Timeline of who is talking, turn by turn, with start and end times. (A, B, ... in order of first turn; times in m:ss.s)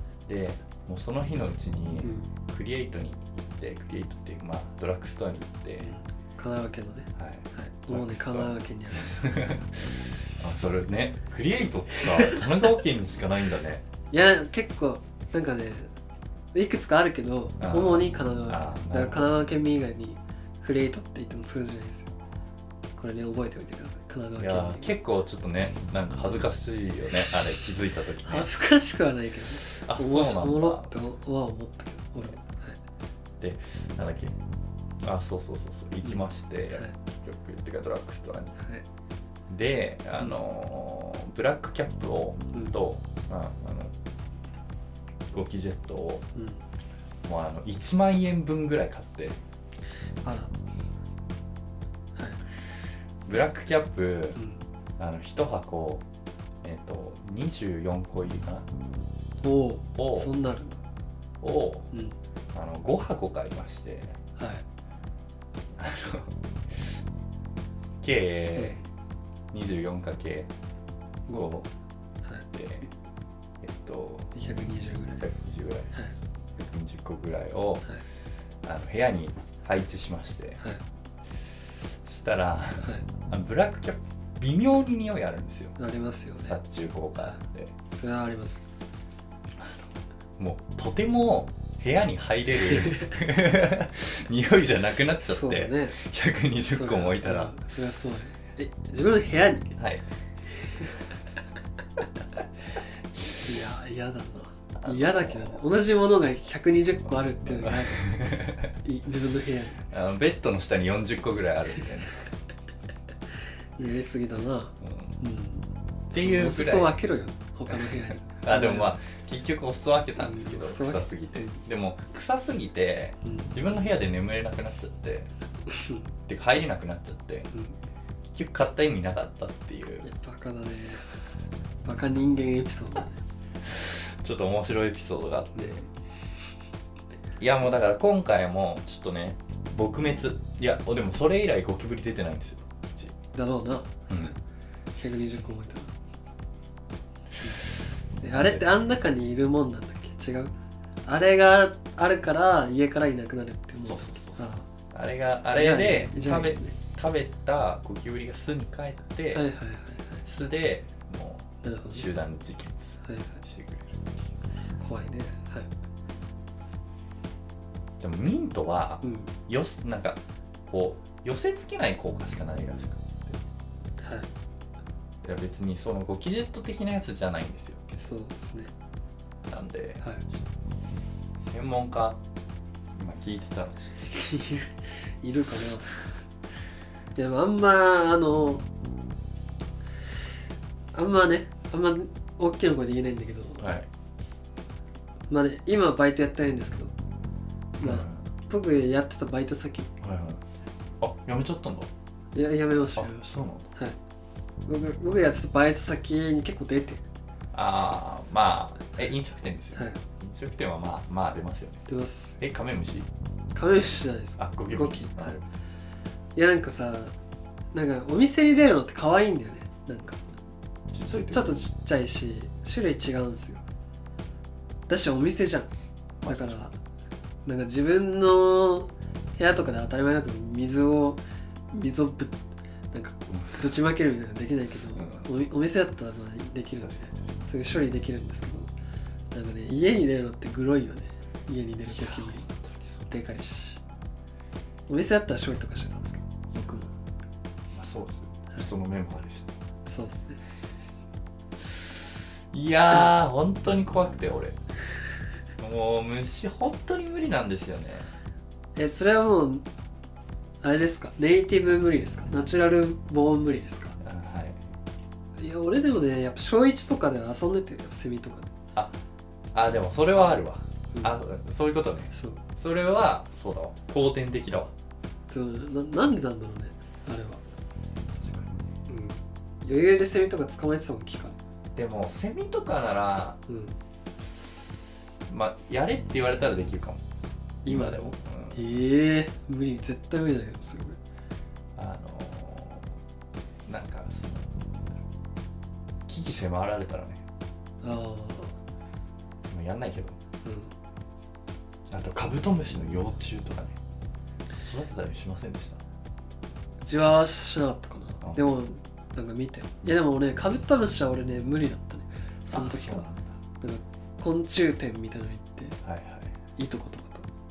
0:00.3-0:06.0 A
0:02.0-0:02.3 B
0:05.9-0:09.2 B
0:07.2-0:13.8 A
0:14.1-0:15.9 B
0:16.5-0:22.1 B
0:17.6-0:19.4 A
0:23.0-0:24.9 B
0:24.4-0:28.5 A
0:28.2-0:32.8 B
0:29.6-0:30.9 A
0:33.4-0:34.4 A
0:35.0-0:38.6 A
0:36.0-0:36.9 B
0:38.6-0:38.8 B
0:39.5-0:43.9 A
0:45.3-0:46.3 A
0:46.4-0:46.6 B
0:47.2-0:49.4 A
0:50.2-0:50.5 B
0:53.3-0:54.4 A
0:55.0-0:56.0 A
0:56.6-0:58.7 A
0:59.4-1:00.8 B
1:00.0-1:00.3 A
1:01.4-1:01.9 A
1:02.5-1:04.2 A
1:04.4-1:04.6 B
1:05.8-1:06.8 A
1:08.0-1:08.8 A
1:09.5-1:10.5 A
1:11.3-1:11.7 A
1:12.5-1:12.9 A
1:13.6-1:14.3 A
1:14.3-1:15.2 B
1:15.2-1:16.0 A
1:16.6-1:17.9 A
1:18.6-1:20.6 A
1:22.0-1:25.8 A
1:22.8-1:23.1 B
1:25.8-1:26.6 B
1:26.4-1:27.7 A
1:27.9-1:28.7 B
1:29.6-1:37.6 A
1:35.2-1:36.0 B
1:36.6-1:39.8 B
1:39.8-1:40.1 A
1:43.4-1:49.8 B
1:44.8-1:45.6 A
1:47.4-1:48.7 A
1:49.9-1:52.3 A
1:53.8-1:58.9 B
1:54.8-1:55.2 A
1:56.1-1:57.0 A
1:57.7-2:05.3 A
2:00.2-2:01.6 B
2:03.2-2:03.5 B
2:05.7-2:06.0 B
2:06.3-2:07.5 A
2:08.3-2:10.1 A
2:10.0-2:11.0 B
2:11.8-2:13.2 B
2:13.6-2:15.9 A
2:17.4-2:23.2 A
2:23.3-2:24.4 B
2:24.1-2:24.4 A
2:25.0-2:25.9 B
2:28.2-2:28.6 A
2:28.2-2:30.5 B
2:31.1-2:34.7 B
2:33.8-2:39.5 A
2:35.5-2:36.8 B
2:39.3-2:40.2 B
2:40.2-2:44.2 A
2:41.6-2:42.1 B
2:43.0-2:43.4 B
2:44.8-2:45.7 B
2:48.0-2:53.4 A
2:49.0-2:49.3 B
2:54.0-2:54.3 B
2:55.2-2:57.8 A
2:57.9-2:58.7 B
2:59.5-3:00.2 A
3:01.4-3:02.2 A
3:03.0-3:04.1 A
3:04.0-3:05.9 B
3:07.2-3:08.6 B
3:10.9-3:13.6 B
3:13.6-3:13.9 A
3:15.3-3:16.9 B
3:17.8-3:19.9 B
3:17.8-3:18.2 A
3:20.0-3:20.4 A
3:21.0-3:21.9 A
3:22.4-3:24.0 B
3:23.0-3:23.7 A
3:24.7-3:27.0 B
3:27.5-3:31.9 A
3:31.9-3:32.4 B
3:32.4-3:33.1 A
3:33.5-3:35.4 B
3:34.4-3:35.5 A
3:36.4-3:37.1 B
3:37.7-3:40.3 B
3:40.9-3:41.7 A
3:41.1-3:43.6 B
3:44.9-3:45.7 B
3:46.2-3:46.6 A
3:46.2-3:46.8 B
3:47.4-3:52.4 B
3:52.9-3:58.7 B
3:53.4-3:53.7 A
3:55.0-3:55.3 A
3:56.8-3:57.3 A
3:59.3-4:02.5 B
4:01.9-4:03.1 A
4:03.1-4:03.8 B
4:04.9-4:06.9 B
4:07.7-4:09.5 A
4:09.9-4:10.4 B
4:12.5-4:14.6 A
4:15.6-4:18.1 A
4:18.8-4:19.6 B
4:20.6-4:24.0 B
4:24.0-4:24.6 A
4:25.4-4:28.5 B
4:29.5-4:34.7 A
4:32.1-4:32.4 B
4:35.3-4:37.4 B
4:38.2-4:38.8 A
4:38.9-4:41.4 B
4:41.8-4:43.4 A
4:43.5-4:43.8 B
4:45.3-4:47.0 A
4:47.6-4:48.0 B
4:47.6-4:48.8 A
4:48.5-4:51.0 B
4:51.8-4:52.9 A
4:53.7-4:55.0 A
4:56.1-4:57.2 A
4:57.8-4:58.6 B
4:59.5-5:00.2 A
5:00.4-5:00.7 B
5:01.9-5:03.8 A
5:04.6-5:05.8 A
5:06.8-5:13.0 B
5:12.5-5:13.4 A
5:13.6-5:15.8 B
5:15.8-5:16.3 A
5:16.6-5:17.3 B